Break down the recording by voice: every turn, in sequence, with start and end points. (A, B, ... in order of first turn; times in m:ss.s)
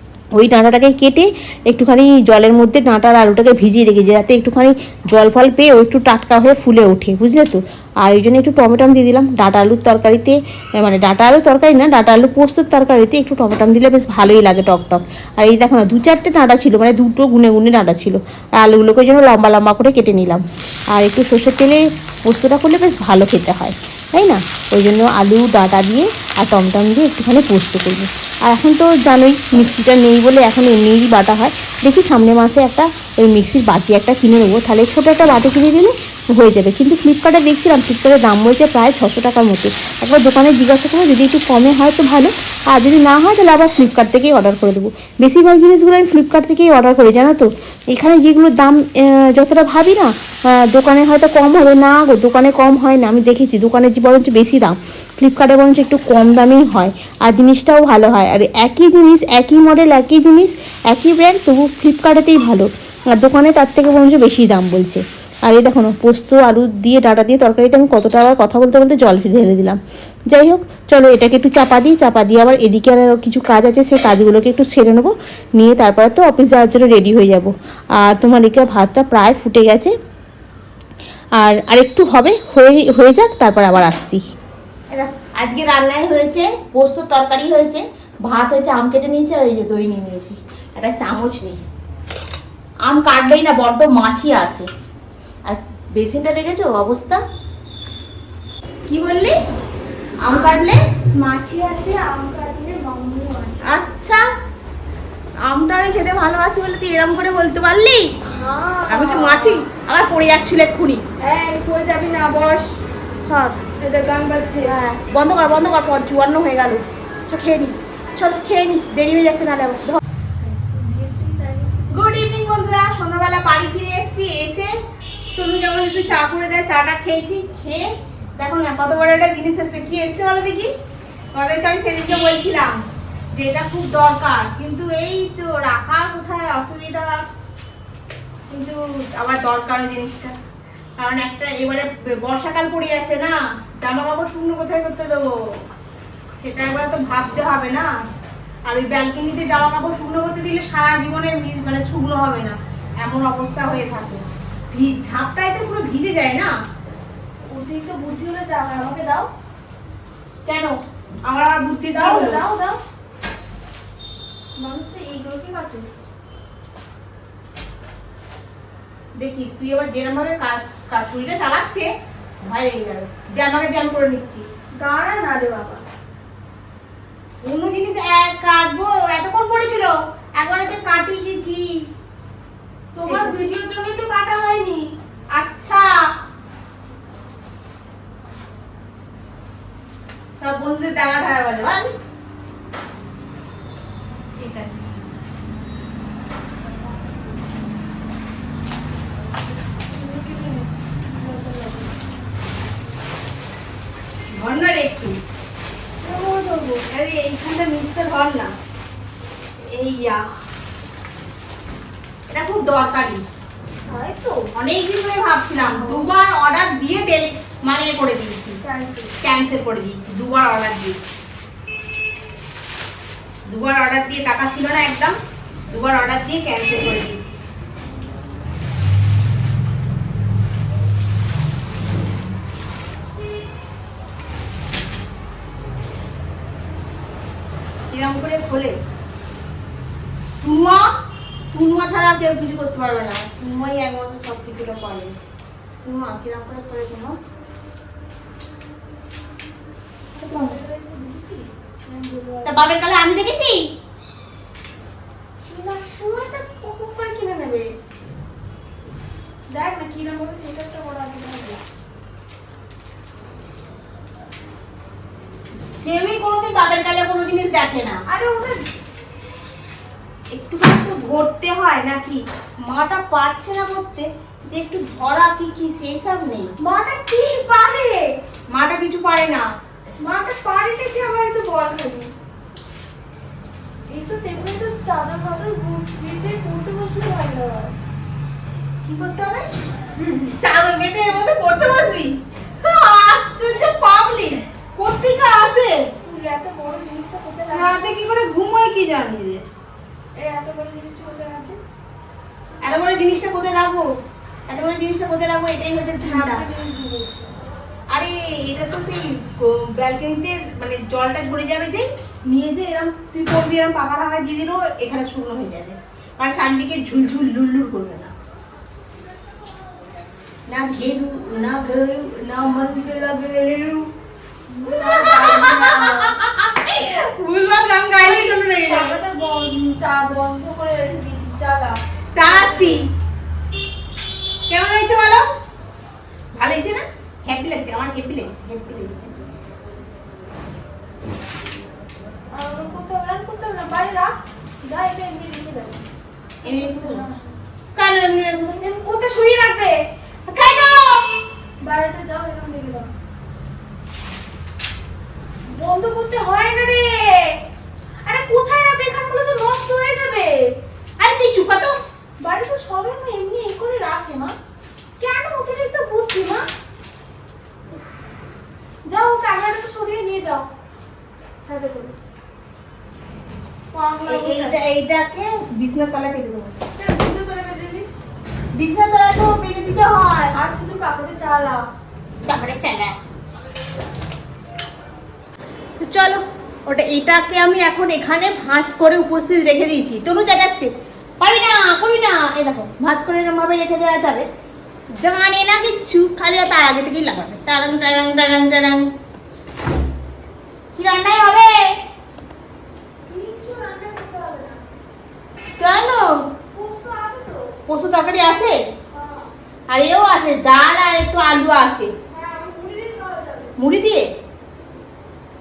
0:00.4-1:19.9 A
1:21.4-1:24.2 A
1:24.9-1:31.6 A
1:32.8-1:34.7 A
1:35.5-1:37.2 A
1:38.9-1:39.4 A
1:40.2-1:40.8 A
1:40.3-1:40.6 B
1:41.1-1:43.7 B
1:43.6-1:44.2 A
1:45.5-1:48.2 A
1:48.2-1:49.6 B
1:48.9-1:51.0 A
1:51.2-1:52.8 B
1:53.2-1:53.6 A
1:53.8-1:54.8 B
1:54.6-2:00.0 A
2:00.4-2:02.1 B
2:01.9-2:04.7 A
2:05.4-2:10.7 A
2:11.3-2:12.8 A
2:13.3-2:17.2 A
2:18.5-2:20.3 A
2:21.0-2:25.4 A
2:26.4-2:27.9 A
2:28.7-2:36.5 A
2:37.5-2:39.3 B
2:40.5-2:42.4 A
2:41.9-2:42.8 B
2:44.6-2:45.9 B
2:49.2-2:51.9 A
2:52.4-2:54.5 A
2:54.7-2:55.8 B
2:57.4-3:01.9 A
3:02.9-3:04.9 B
3:03.0-3:03.4 A
3:05.4-3:05.9 A
3:10.4-3:11.9 A
3:14.4-3:14.9 A
3:19.9-3:22.0 B
3:24.3-3:25.2 A
3:26.0-3:26.8 B
3:26.8-3:28.5 A
3:29.6-3:30.2 A
3:32.3-3:33.2 A
3:33.9-3:34.5 B
3:34.5-3:38.6 A
3:35.6-3:36.1 B
3:38.6-3:39.1 B
3:39.2-3:41.0 A
3:43.5-3:45.2 A
3:45.7-3:47.4 A
3:57.9-3:58.8 A
4:00.4-4:00.9 A
4:01.5-4:05.2 A
4:05.8-4:07.2 A
4:10.2-4:12.6 B
4:12.4-4:13.7 A
4:15.5-4:17.7 B
4:19.5-4:21.6 B
4:25.8-4:28.0 A
4:28.1-4:28.7 B
4:30.3-4:36.5 A
4:36.6-4:38.2 B
4:38.5-4:39.4 A
4:40.0-4:42.1 B
4:43.9-4:47.8 B
4:48.9-4:49.5 B
4:50.0-4:55.9 A
4:56.0-4:57.9 B
4:57.5-4:59.4 A
5:00.2-5:01.6 B
5:02.6-5:03.8 A
5:04.5-5:06.4 A
5:06.0-5:07.4 B
5:07.9-5:18.1 A
5:20.5-5:23.9 A
5:24.5-5:26.2 B
5:24.7-5:28.9 A
5:28.0-5:32.8 B
5:32.1-5:32.9 A
5:34.5-5:35.2 A
5:36.4-5:39.2 A
5:42.3-5:45.8 B
5:46.4-5:47.4 B
5:46.4-5:47.0 A
5:47.8-5:48.6 A
5:48.5-5:50.5 B
5:50.3-5:51.1 A
5:51.6-5:52.9 B
5:55.5-5:57.4 B
5:58.0-6:00.6 B
6:01.0-6:01.8 A
6:02.2-6:04.4 B
6:05.0-6:06.5 B
6:07.7-6:08.1 B
6:08.9-6:10.5 B
6:11.5-6:12.0 B
6:13.7-6:14.6 B
6:14.1-6:16.6 A
6:16.8-6:17.9 B
6:18.6-6:20.4 A
6:20.3-6:21.6 B
6:22.3-6:23.0 A
6:25.8-6:34.3 A
6:35.0-6:38.9 A
6:40.8-6:41.7 A
6:43.0-6:44.6 B
6:45.6-6:46.2 A
6:46.4-6:47.6 B
6:47.7-6:48.6 A
6:48.9-6:49.3 B
6:49.7-6:51.9 A
6:52.1-6:53.6 B
6:53.6-6:54.0 A